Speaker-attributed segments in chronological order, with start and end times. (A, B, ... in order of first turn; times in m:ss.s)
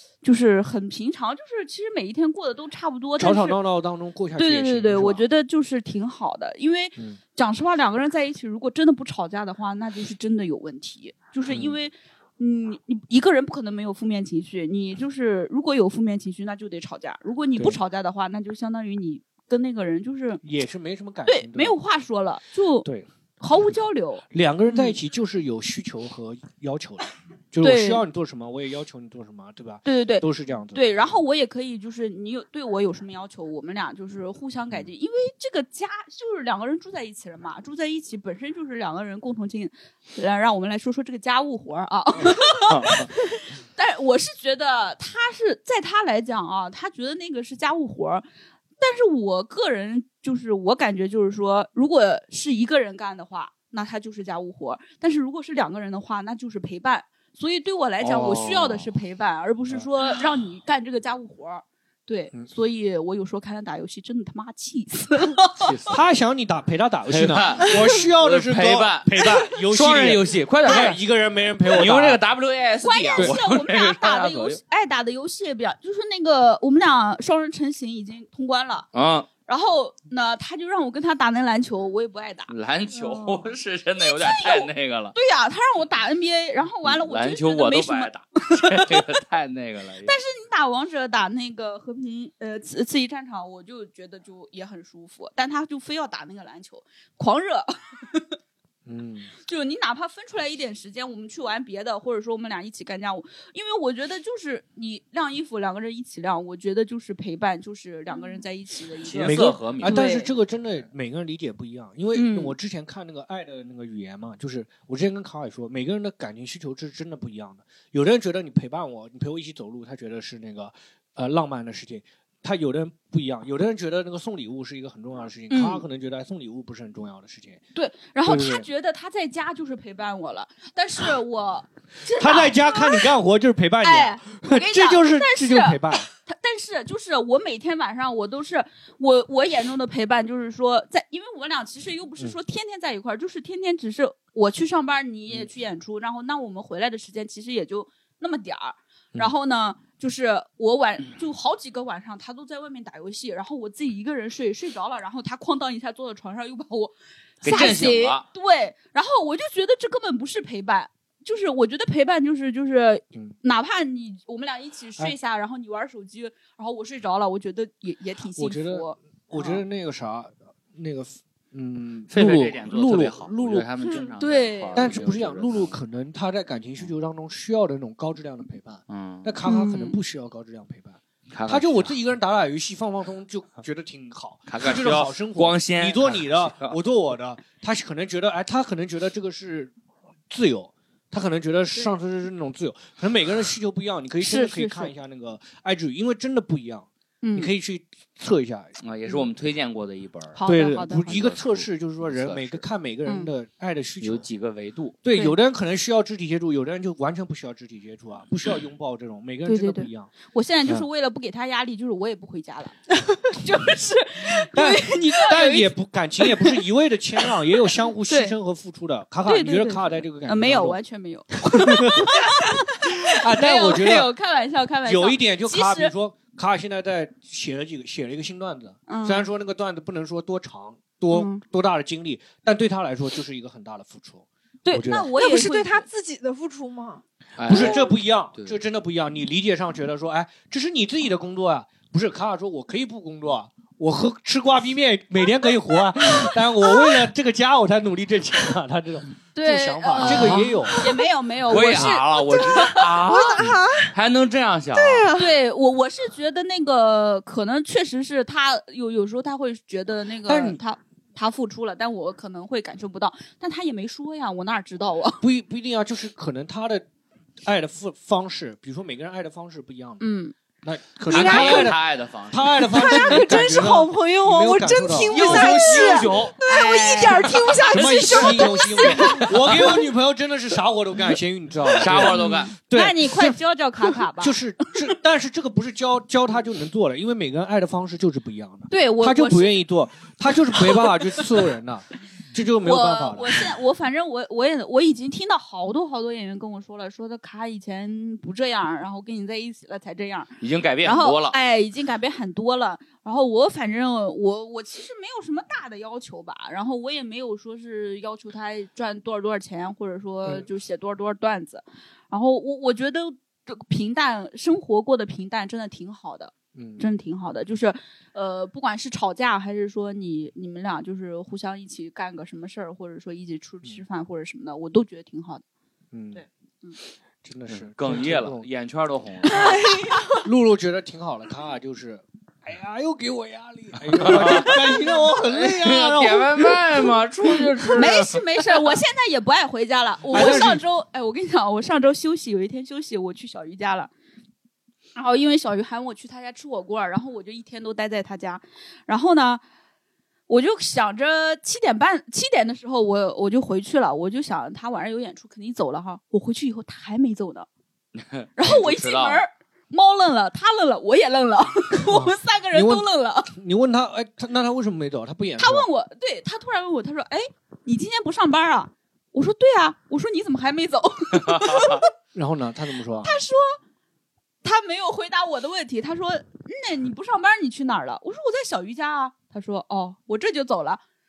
0:00.2-0:03.6 A
0:03.2-0:05.2 B
0:04.4-0:20.4 A
0:11.5-0:11.7 B
0:20.4-0:21.8 B
0:21.2-0:22.9 A
0:23.4-0:25.0 A
0:24.3-0:30.9 B
0:27.6-0:28.0 A
0:29.8-0:48.2 A
0:42.7-0:43.1 C
0:48.8-1:05.7 A
0:58.0-0:58.9 C
1:05.6-1:06.0 C
1:05.9-1:12.2 B
1:07.1-1:11.0 C
1:11.6-1:14.6 C
1:12.8-1:18.9 A
1:18.9-1:19.3 C
1:19.4-1:22.5 A
1:22.5-1:25.1 C
1:22.9-1:23.4 D
1:24.0-1:29.1 A
1:26.8-1:30.2 C
1:30.0-1:38.3 A
1:38.8-1:39.3 B
1:39.4-1:50.3 A
1:49.0-1:50.1 C
1:49.2-2:07.6 B
1:52.1-1:52.6 A
2:05.5-2:05.8 A
2:07.7-2:13.1 A
2:08.2-2:08.7 B
2:12.1-2:16.1 B
2:13.8-2:49.6 A
2:37.4-2:38.2 C
2:48.4-2:53.7 B
2:52.1-2:55.8 C
2:54.2-2:55.0 A
2:54.7-3:09.7 B
2:58.9-2:59.4 C
2:59.4-3:00.0 A
3:01.3-3:01.9 C
3:04.5-3:06.8 C
3:10.3-3:18.7 B
3:14.2-3:14.9 A
3:17.2-3:17.5 A
3:18.8-3:20.4 C
3:20.3-3:21.2 A
3:20.4-3:24.3 B
3:21.0-3:22.6 C
3:24.0-3:25.0 C
3:25.0-3:30.1 B
3:29.4-3:32.8 A
3:33.3-3:35.7 A
3:34.3-3:40.8 B
3:36.2-3:36.6 A
3:38.0-3:38.3 A
3:39.2-3:45.9 A
3:41.4-3:44.1 B
3:44.8-3:55.1 B
3:48.9-3:49.3 A
3:51.1-3:51.4 A
3:54.6-3:55.9 A
3:55.2-3:57.0 D
3:57.4-3:58.6 C
3:57.4-4:10.9 B
4:09.3-4:13.1 A
4:10.0-4:10.6 C
4:11.5-4:15.1 C
4:13.0-4:13.9 D
4:14.7-4:15.3 D
4:15.1-4:25.2 A
4:20.2-4:20.6 B
4:25.2-4:26.8 B
4:27.4-4:30.0 B
4:30.0-4:30.3 A
4:30.6-4:35.5 B
4:31.1-4:32.7 C
4:31.1-4:31.7 D
4:32.7-4:39.8 D
4:35.1-4:36.3 C
4:35.3-4:39.2 A
4:37.7-4:43.4 B
4:41.8-4:42.5 C
4:42.0-4:44.7 A
4:44.2-4:53.4 B
4:48.7-4:49.6 A
4:52.6-5:25.4 A
5:00.4-5:01.4 C
5:16.5-5:16.8 B
5:25.9-5:26.2 B
5:26.1-5:26.8 A
5:27.2-5:28.4 B
5:27.5-5:29.7 C
5:29.3-5:30.2 D
5:29.3-5:30.0 A
5:30.2-5:36.6 B
5:33.9-5:34.8 C
5:35.3-5:38.6 C
5:37.7-5:43.9 A
5:40.1-5:40.6 B
5:45.0-5:49.4 A
5:50.3-5:57.5 A
5:57.9-5:59.2 C
5:58.4-6:03.3 A
6:01.9-6:05.7 B
6:05.4-6:11.9 A
6:11.2-6:11.8 C
6:12.1-6:13.2 B
6:13.0-6:13.6 A
6:14.4-6:20.8 A